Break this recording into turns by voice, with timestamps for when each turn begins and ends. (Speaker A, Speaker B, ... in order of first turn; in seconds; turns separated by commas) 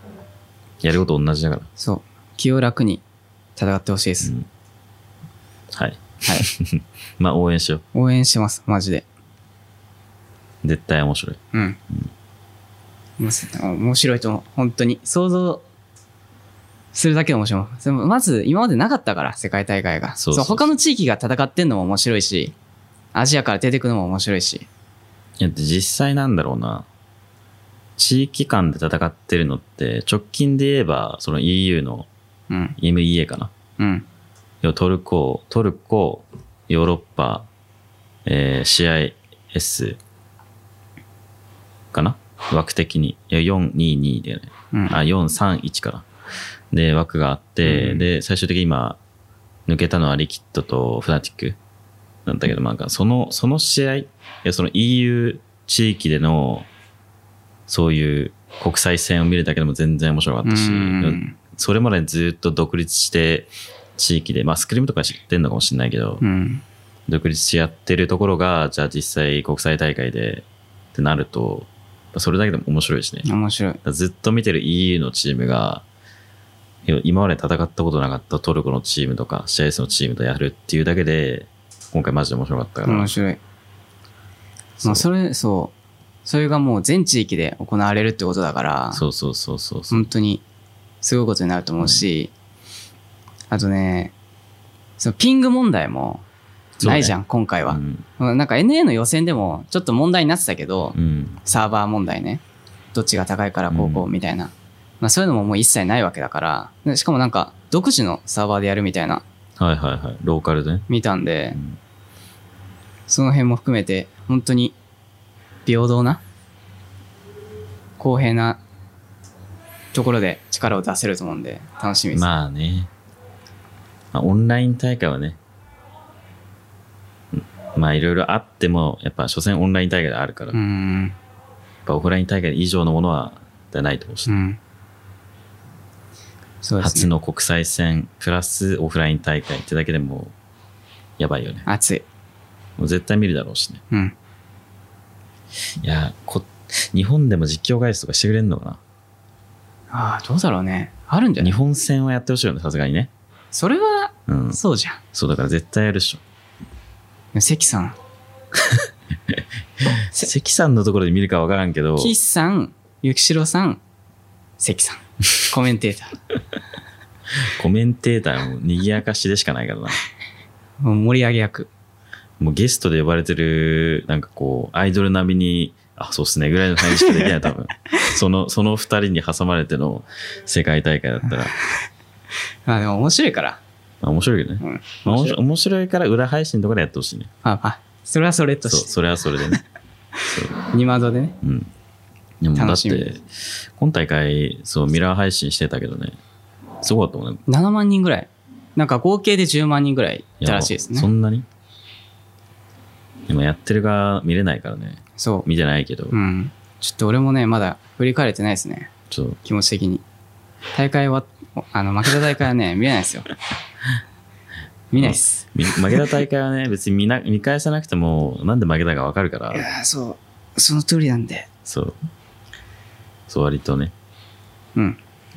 Speaker A: 0.8-1.7, Speaker B: 1.8-3.0, Speaker B: 3.6-4.3, Speaker A: 4.2-4.5, Speaker A: 5.7-7.8, Speaker B: 7.9-9.1, Speaker A: 10.6-11.4, Speaker B: 11.5-11.8, Speaker B: 13.2-15.6, Speaker B: 16.9-22.5, Speaker A: 20.2-20.7, Speaker B: 23.1-24.7, Speaker A: 25.4-26.9, Speaker A: 28.0-32.1, Speaker B: 32.5-32.8, Speaker A: 32.8-33.5, Speaker B: 33.8-34.0, Speaker A: 34.6-37.5, Speaker A: 38.2-40.0, Speaker A: 41.9-46.0, Speaker B: 44.7-45.0, Speaker A: 46.7-49.0, Speaker B: 47.6-48.0, Speaker A: 49.7-51.6, Speaker A: 52.2-56.7, Speaker A: 57.7-66.2, Speaker B: 60.4-61.4, Speaker B: 66.2-66.6, Speaker A: 67.1-73.2, Speaker B: 73.2-73.8, Speaker A: 73.8-75.8, Speaker A: 76.8-83.1, Speaker B: 82.8-83.4, Speaker B: 84.8-85.7, Speaker B: 86.2-89.0, Speaker A: 88.9-90.1, Speaker B: 89.9-90.4, Speaker B: 91.0-92.3, Speaker B: 93.5-94.1, Speaker B: 95.0-96.2, Speaker A: 96.8-97.1, Speaker B: 96.8-102.4, Speaker A: 97.7-98.0, Speaker A: 101.0-101.4, Speaker B: 102.9-109.2, Speaker A: 103.7-104.1, Speaker A: 109.6-110.9, Speaker B: 110.9-111.6, Speaker B: 113.1-114.7, Speaker B: 115.7-116.2, Speaker B: 118.0-118.6, Speaker B: 119.9-122.3, Speaker A: 122.1-122.9, Speaker A: 124.1-125.4, Speaker A: 127.3-130.6, Speaker B: 130.5-131.2, Speaker A: 131.8-134.3, Speaker B: 134.3-134.6, Speaker B: 136.6-137.1, Speaker A: 136.8-140.3, Speaker A: 141.2-141.7, Speaker B: 141.7-142.0, Speaker A: 142.8-143.8, Speaker A: 145.8-148.8, Speaker B: 149.9-151.6, Speaker A: 151.4-153.1, Speaker B: 153.5-155.0, Speaker A: 154.3-154.6, Speaker A: 155.1-156.2, Speaker B: 157.3-157.9, Speaker A: 159.3-162.1, Speaker B: 162.0-163.8, Speaker B: 164.6-166.1, Speaker A: 167.4-170.0, Speaker B: 170.8-171.7, Speaker A: 172.4-181.5, Speaker B: 177.0-177.3, Speaker B: 182.7-183.6, Speaker A: 184.0-187.3, Speaker B: 184.6-185.4, Speaker B: 187.4-188.9, Speaker A: 188.7-189.6, Speaker A: 190.3-190.6, Speaker B: 190.3-191.4, Speaker A: 191.4-191.7, Speaker A: 192.4-196.2, Speaker B: 192.6-193.1, Speaker A: 196.8-197.4, Speaker B: 197.5-201.1, Speaker A: 200.4-201.5, Speaker A: 203.3-206.2, Speaker B: 205.2-205.5, Speaker B: 206.1-208.9, Speaker A: 209.1-209.4, Speaker B: 209.4-210.0, Speaker B: 210.7-213.3, Speaker B: 214.9-216.1, Speaker A: 215.0-219.7, Speaker B: 219.5-221.5, Speaker A: 221.6-222.0, Speaker A: 223.3-223.9